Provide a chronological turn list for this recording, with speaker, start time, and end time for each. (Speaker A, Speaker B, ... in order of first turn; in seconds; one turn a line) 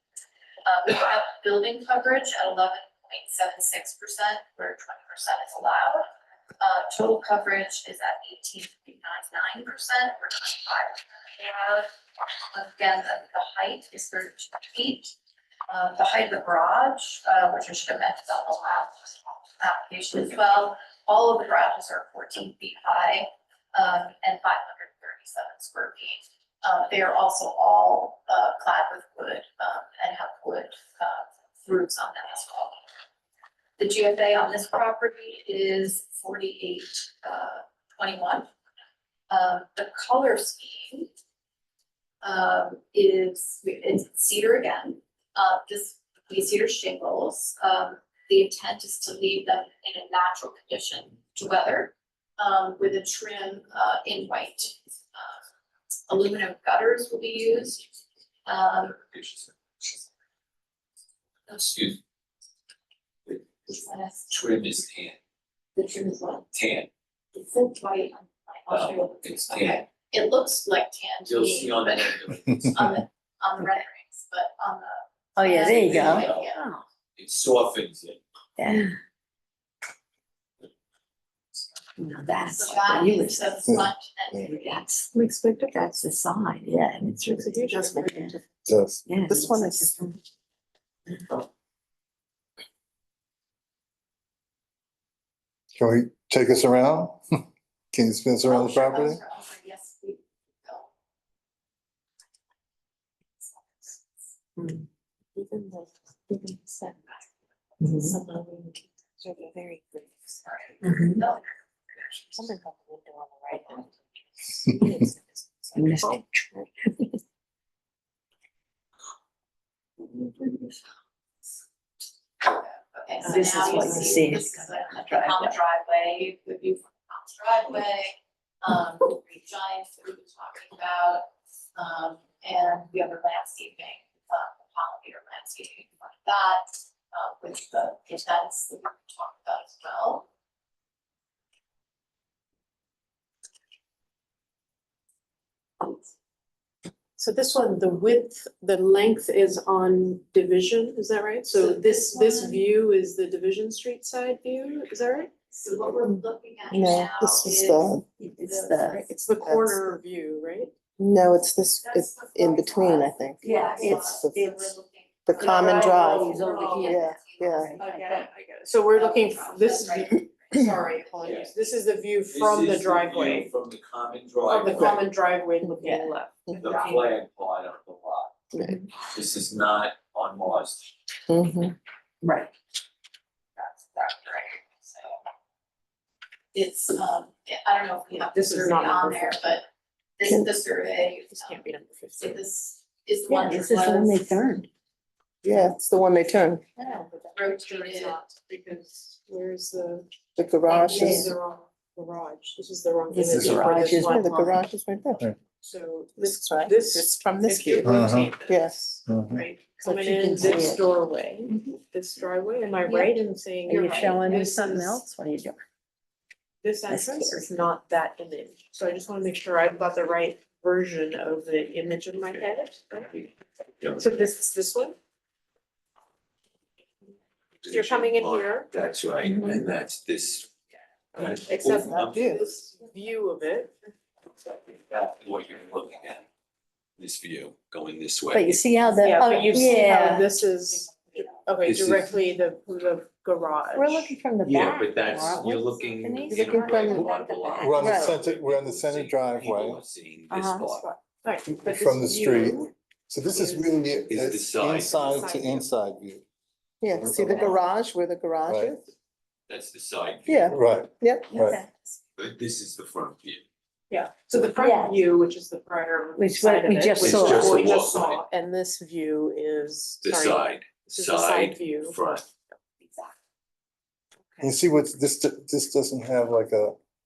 Speaker A: 0.6-6.1
Speaker A: 6.6-11.9
Speaker A: 12.5-15.1
Speaker A: 15.7-32.8
Speaker A: 33.8-38.5
Speaker A: 39.3-41.1
Speaker A: 42.2-55.4
Speaker A: 56.1-57.9
Speaker A: 58.5-59.0
Speaker B: 59.0-59.5
Speaker B: 61.5-62.0
Speaker B: 63.3-63.7
Speaker A: 63.5-64.6
Speaker B: 64.3-65.2
Speaker A: 65.8-66.5
Speaker B: 66.5-66.9
Speaker A: 67.3-76.6
Speaker B: 68.7-69.8
Speaker B: 71.2-73.0
Speaker C: 75.4-76.8
Speaker B: 75.6-76.5
Speaker B: 77.2-78.2
Speaker C: 78.6-78.9
Speaker C: 82.0-83.6
Speaker A: 82.4-84.9
Speaker C: 84.4-88.4
Speaker D: 85.1-85.8
Speaker D: 87.0-88.1
Speaker E: 87.6-88.5
Speaker F: 88.7-89.0
Speaker C: 89.0-90.2
Speaker E: 89.2-89.9
Speaker C: 91.1-91.4
Speaker F: 95.8-99.2
Speaker A: 98.5-100.9
Speaker E: 105.3-107.0
Speaker C: 107.8-108.2
Speaker D: 108.1-108.8
Speaker E: 109.2-110.2
Speaker A: 110.4-112.5
Speaker C: 110.8-111.2
Speaker E: 112.4-113.9
Speaker E: 114.7-116.2
Speaker C: 115.7-117.0
Speaker A: 122.4-140.2
Speaker C: 123.2-125.5
Speaker D: 123.2-124.3
Speaker D: 147.2-155.3
Speaker A: 151.5-152.7
Speaker A: 155.5-159.1
Speaker E: 156.7-158.1
Speaker C: 158.2-159.2
Speaker E: 159.1-160.0
Speaker D: 159.2-160.7
Speaker E: 161.0-164.5
Speaker A: 161.8-171.7
Speaker C: 163.4-164.8
Speaker E: 165.2-167.8
Speaker D: 165.4-166.9
Speaker C: 165.5-168.3
Speaker D: 167.8-173.5
Speaker B: 171.2-171.5
Speaker B: 172.2-175.0
Speaker D: 174.4-176.9
Speaker E: 174.8-175.0
Speaker E: 175.6-175.9
Speaker C: 175.8-176.1
Speaker E: 176.4-176.8
Speaker B: 176.6-178.3
Speaker E: 178.5-178.8
Speaker B: 179.1-180.9
Speaker E: 181.3-181.7
Speaker C: 182.2-182.5
Speaker A: 183.6-185.1
Speaker A: 186.5-189.7
Speaker D: 188.1-189.4
Speaker A: 190.2-191.6
Speaker D: 191.3-192.4
Speaker A: 192.2-194.4
Speaker C: 193.3-194.7
Speaker E: 195.4-196.8
Speaker D: 195.5-195.8
Speaker D: 196.8-200.1
Speaker A: 197.3-198.2
Speaker E: 200.3-201.3
Speaker D: 200.7-204.7
Speaker C: 200.9-201.3
Speaker C: 203.1-204.6
Speaker F: 203.3-203.8
Speaker E: 203.9-205.2
Speaker D: 205.4-215.0
Speaker E: 206.2-208.8
Speaker F: 207.8-208.3
Speaker F: 209.0-209.4
Speaker C: 209.8-210.8
Speaker C: 211.5-211.8
Speaker C: 213.6-215.6
Speaker D: 216.6-223.3
Speaker C: 216.9-217.5
Speaker B: 223.8-224.1
Speaker D: 223.9-224.9
Speaker B: 227.6-230.5
Speaker D: 227.6-228.7
Speaker C: 229.2-229.7
Speaker B: 231.1-232.5
Speaker D: 231.1-233.9
Speaker E: 231.7-232.4
Speaker B: 234.4-236.2
Speaker B: 237.0-238.6
Speaker C: 238.3-240.3
Speaker D: 239.0-244.2
Speaker B: 241.6-242.2
Speaker C: 243.7-247.9
Speaker B: 244.4-250.9
Speaker E: 246.3-247.1
Speaker F: 247.6-249.8
Speaker E: 247.8-248.2
Speaker C: 250.3-250.7
Speaker D: 250.7-252.7
Speaker F: 251.4-256.2
Speaker D: 253.2-254.1
Speaker B: 254.1-255.1
Speaker D: 254.9-255.7
Speaker E: 256.8-258.9
Speaker F: 257.0-257.3
Speaker B: 257.1-257.6
Speaker F: 258.5-258.8
Speaker B: 259.5-260.6
Speaker E: 260.3-261.4
Speaker F: 260.4-261.6
Speaker C: 261.3-261.6
Speaker B: 262.1-263.4
Speaker D: 263.9-272.0
Speaker C: 264.5-265.0
Speaker C: 266.1-267.8
Speaker B: 267.0-268.2
Speaker B: 270.0-272.2
Speaker F: 274.4-276.8